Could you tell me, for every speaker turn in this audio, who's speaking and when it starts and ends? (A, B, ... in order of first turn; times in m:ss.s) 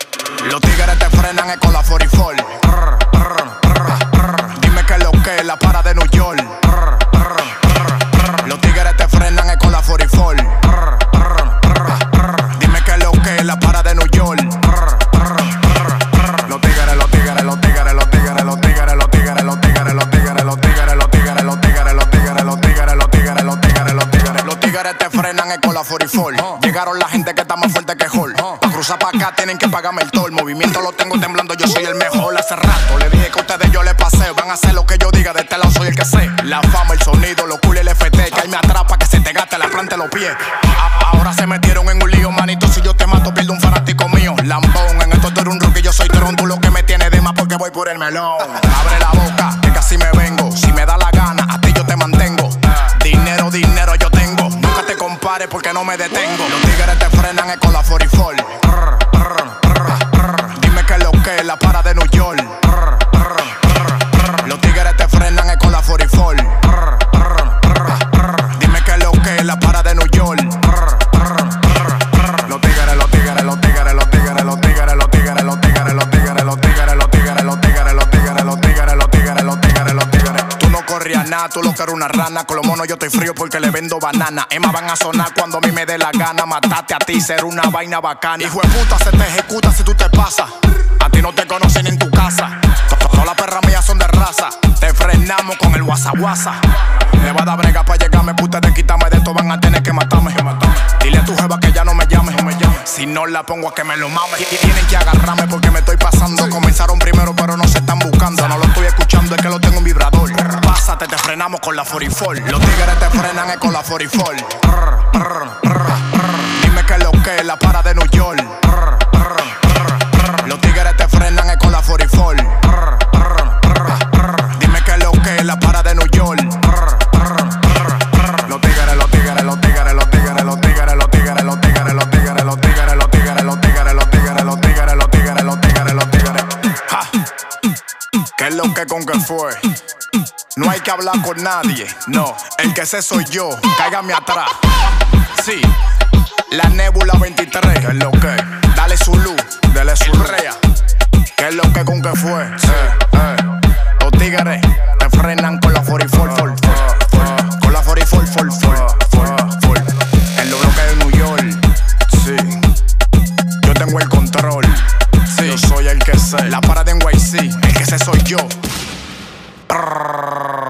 0:00.4-1:36.6 A
1:37.2-1:59.9 A
2:00.4-2:17.2 A
2:18.4-2:19.7 A
2:20.6-2:24.6 A
2:25.3-2:25.7 A
2:26.5-2:30.6 A
2:31.4-2:33.4 A
2:34.0-2:42.6 A
2:43.6-2:48.6 A
2:49.7-2:50.0 A